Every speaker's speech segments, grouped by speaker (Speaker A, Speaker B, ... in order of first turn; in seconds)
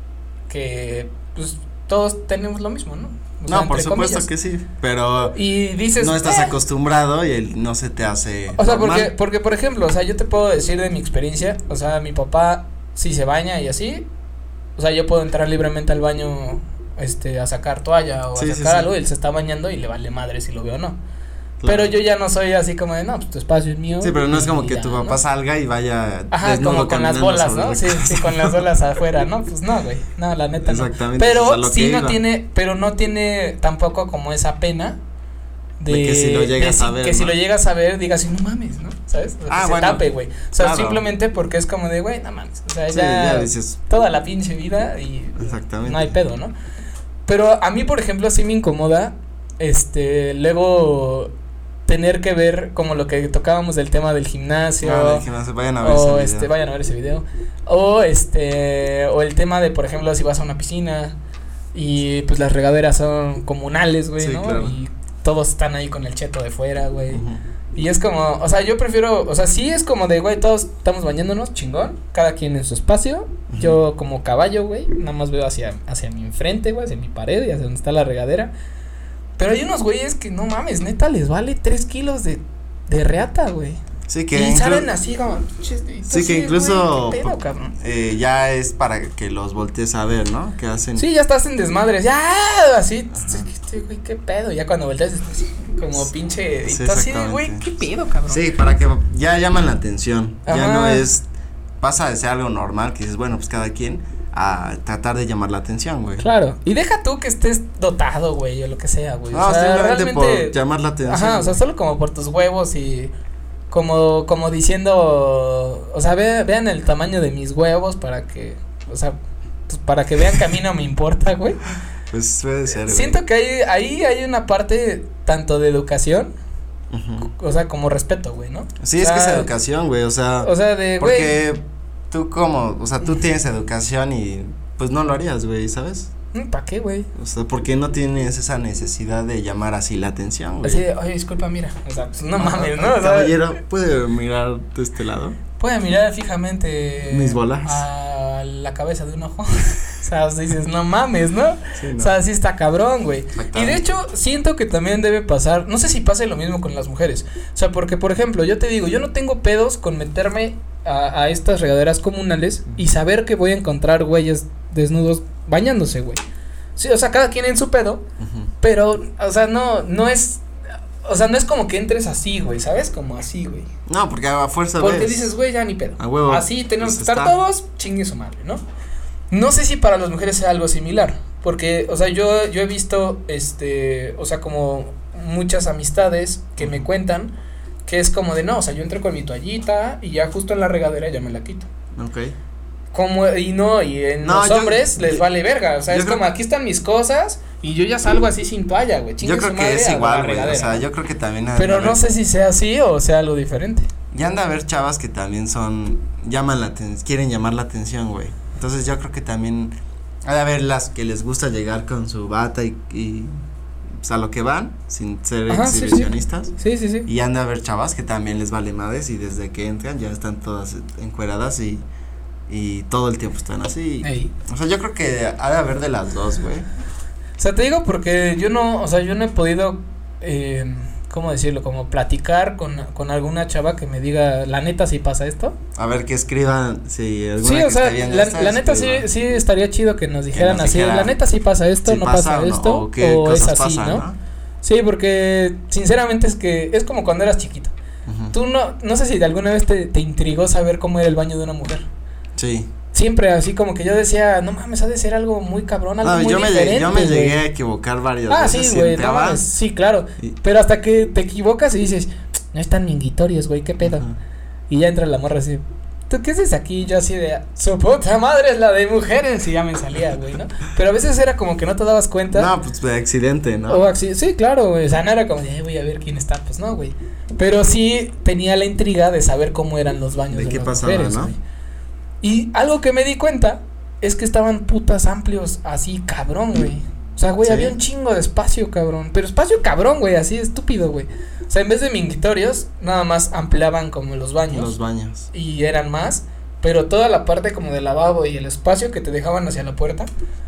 Speaker A: 0.5-4.3, 5.3-6.5, 8.5-14.1, 14.8-21.0, 21.6-25.2, 26.3-35.0, 35.8-46.5, 47.3-51.3, 51.9-55.2, 55.8-61.1, 61.7-67.2, 67.7-78.5, 79.4-83.8, 84.3-87.7, 91.0-98.4, 100.5-101.0, 106.2-110.5, 111.1-113.1, 113.7-119.1, 119.7-121.6, 122.8-126.3, 127.2-129.5, 130.4-131.3, 136.3-137.1, 140.6-143.4, 145.6-166.2, 166.8-168.0, 168.6-170.4, 171.0-173.7, 174.8-178.6, 179.3-187.3, 187.9-191.7, 192.9-200.8, 201.6-203.9, 215.5-217.1, 224.0-224.3, 227.4-235.6, 237.4-244.0, 244.6-247.7, 248.3-251.8, 252.9-257.4, 258.3-264.0, 264.7-272.5, 273.7-281.4, 282.2-294.7, 295.3-300.1
Speaker B: 3.5-5.3, 6.0-9.1, 18.3-18.9, 21.6-21.9, 24.0-28.6, 30.6-32.2, 35.9-37.3, 39.5-40.0, 40.5-41.0, 42.9-43.8, 45.4-46.2, 54.8-56.5, 64.2-64.8, 67.1-67.4, 73.5-73.8, 84.1-84.9, 86.1-91.0, 93.1-93.5, 96.6-97.6, 98.3-101.3, 101.8-106.3, 109.3-111.6, 122.1-123.2, 126.9-127.3, 128.8-136.1, 137.1-140.8, 142.3-145.4, 147.1-147.8, 151.7-152.1, 153.3-153.8, 168.2-168.5, 173.9-175.3, 176.0-177.4, 186.6-186.8, 191.9-192.3, 194.2-195.2, 195.9-196.2, 199.2-202.0, 204.1-209.7, 210.2-213.3, 214.0-216.5, 217.1-221.8, 222.5-226.7, 235.8-239.1, 240.3-241.2, 241.8-244.1, 248.1-248.3, 252.3-252.7, 256.0-259.5, 263.8-264.1, 272.3-273.9, 280.3-281.3, 287.4-287.7, 294.5-295.3